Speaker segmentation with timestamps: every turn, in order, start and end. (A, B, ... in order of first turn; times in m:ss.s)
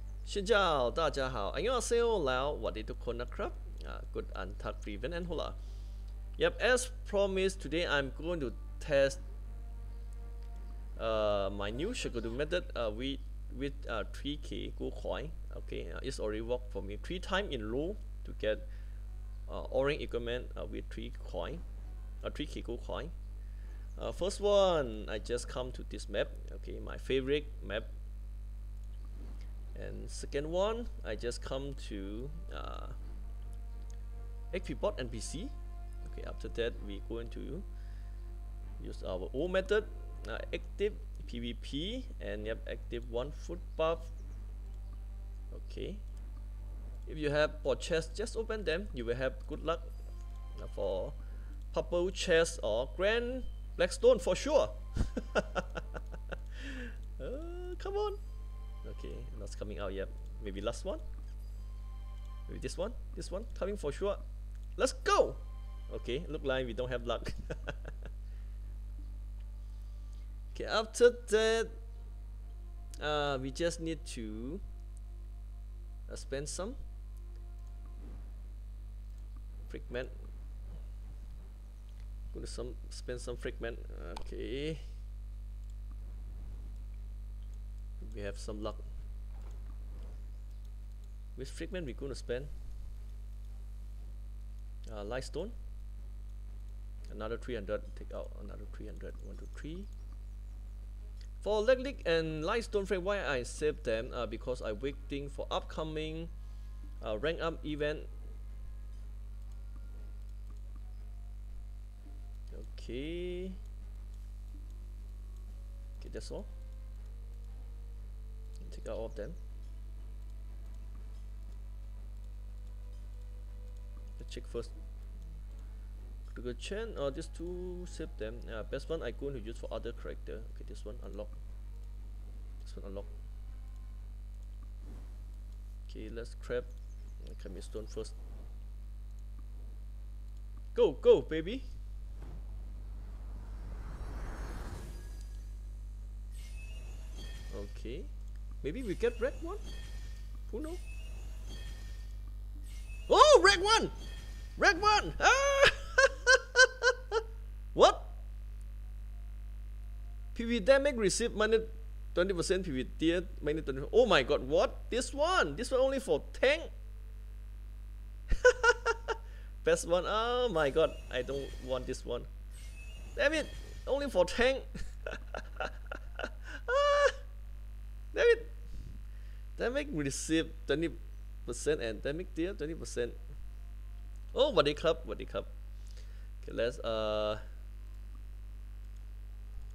0:00.2-0:05.6 A
0:06.4-0:09.2 A
0:11.0-0:18.7 A
0:19.5-0:21.6 A
0:22.2-0:23.1 A
0:24.0-0:27.9 A
0:29.8-0:33.0 A
0:34.5-0:37.7 A
0:38.8-0:44.1 A
0:45.5-0:46.0 A
0:47.1-0:49.9 A
0:50.6-0:51.2 A
0:51.7-0:58.2 A
0:58.8-1:01.0 A
1:02.5-1:04.2 A
1:04.8-1:08.0 A
1:10.5-1:11.7 A
1:13.0-1:14.6 A
1:16.1-1:16.8 A
1:19.7-1:20.1 A
1:22.3-1:24.9 A
1:28.0-1:28.9 A
1:31.4-1:32.5 A
1:34.9-1:35.6 A
1:37.1-1:39.9 A
1:41.4-1:46.3 A
1:47.0-1:48.1 A
1:52.5-1:53.6 A
1:56.0-1:56.5 A
1:58.6-1:59.4 A
2:04.2-2:04.7 A
2:06.3-2:11.4 A
2:12.6-2:13.1 A
2:15.9-2:16.7 A
2:17.2-2:18.2 A
2:20.7-2:21.7 A
2:27.5-2:28.1 A
2:28.6-2:29.6 A
2:30.5-2:30.8 A
2:33.1-2:33.9 A
2:34.6-2:37.2 A
2:37.7-2:38.1 A
2:40.3-2:46.7 A
2:48.3-2:52.3 A
2:53.2-2:57.2 A
2:58.1-2:58.6 A
2:59.6-3:03.2 A
3:04.3-3:05.5 A
3:06.4-3:07.4 A